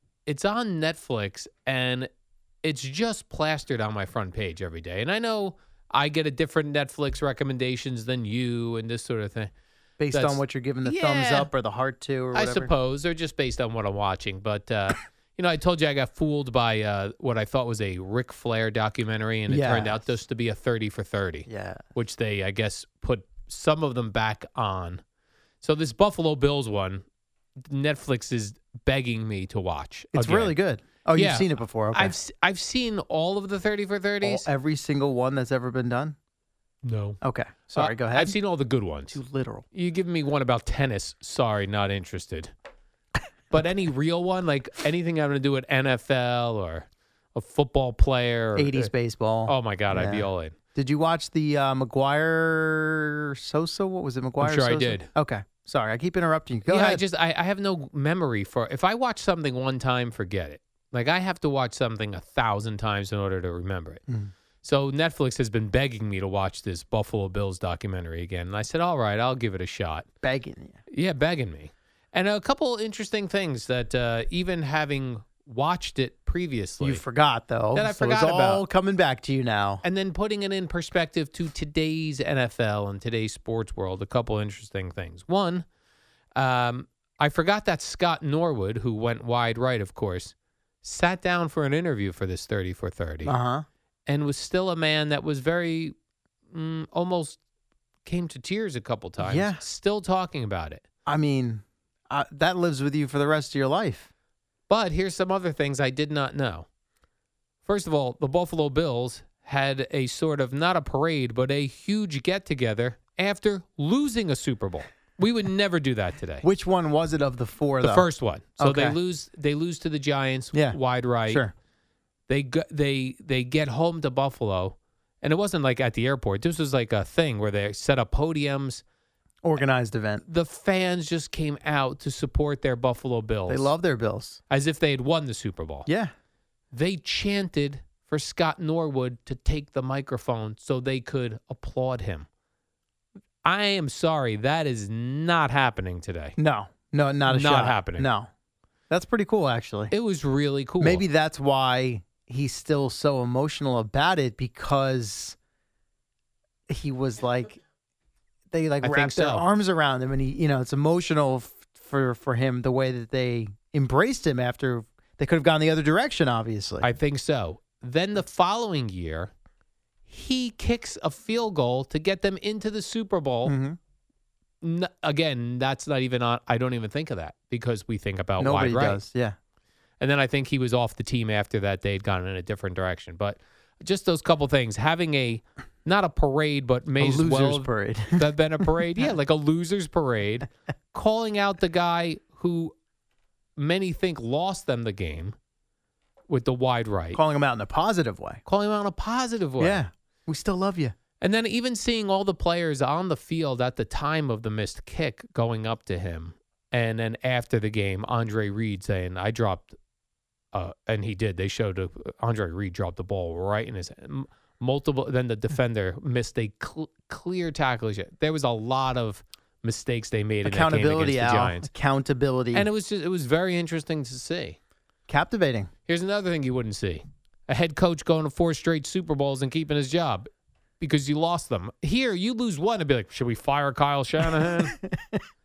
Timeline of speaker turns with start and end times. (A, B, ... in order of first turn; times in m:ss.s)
0:00.3-0:02.1 A
0:02.6-0:09.5 A
0:10.0-0:12.7 B
0:10.1-0:11.5 A
0:12.3-0:25.0 A
0:19.5-0:20.0 B
0:21.5-0:21.8 B
0:25.6-0:27.0 A
0:27.6-0:30.6 A
0:30.1-0:32.1 B
0:31.2-0:34.5 A
0:34.2-0:36.2 B
0:36.8-0:37.2 A
0:37.2-0:38.4 B
0:37.7-0:39.2 A
0:39.1-0:39.7 B
0:39.7-0:42.5 A
0:43.5-0:48.9 A
0:48.6-0:57.0 B
0:49.5-0:50.6 A
0:54.4-0:55.1 A
0:56.7-1:04.0 A
1:04.6-1:10.1 A
1:10.2-1:10.8 B
1:10.9-1:17.0 A
1:16.8-1:19.8 B
1:17.7-1:18.6 A
1:19.8-1:25.7 A
1:26.4-1:33.4 A
1:33.2-1:33.7 B
1:34.1-1:36.0 A
1:36.5-1:37.4 A
1:38.0-1:40.8 A
1:39.2-1:39.6 B
1:41.1-1:44.1 B
1:44.7-1:46.7 A
1:47.6-1:56.4 A
1:56.4-1:59.0 B
1:57.8-2:01.4 A
2:00.5-2:01.5 B
2:02.3-2:08.8 A
2:09.4-2:10.2 B
2:10.2-2:13.7 A
2:13.5-2:14.4 B
2:14.5-2:15.9 A
2:15.9-2:16.1 B
2:16.7-2:22.3 A
2:23.4-2:26.4 A
2:26.4-2:28.3 B
2:27.3-2:28.1 A
2:28.9-2:29.9 B
2:29.9-2:31.0 A
2:30.8-2:35.4 B
2:36.7-2:37.6 B
2:38.5-2:46.9 B
2:38.8-2:39.5 A
2:46.8-2:49.3 A
2:50.1-2:53.6 A
2:53.4-2:53.8 B
2:54.6-2:59.0 A
2:58.4-2:59.4 B
3:00.0-3:12.8 A
3:07.0-3:08.3 B
3:13.6-3:15.4 A
3:16.3-3:17.2 A
3:17.1-3:18.4 B
3:18.5-3:19.8 A
3:19.6-3:21.0 B
3:21.2-3:29.8 A
3:30.5-3:41.7 A
3:40.4-3:42.7 B
3:42.5-3:44.6 A
3:45.1-3:45.7 B
3:45.9-3:50.3 A
3:50.8-3:54.8 A
3:54.4-3:55.2 B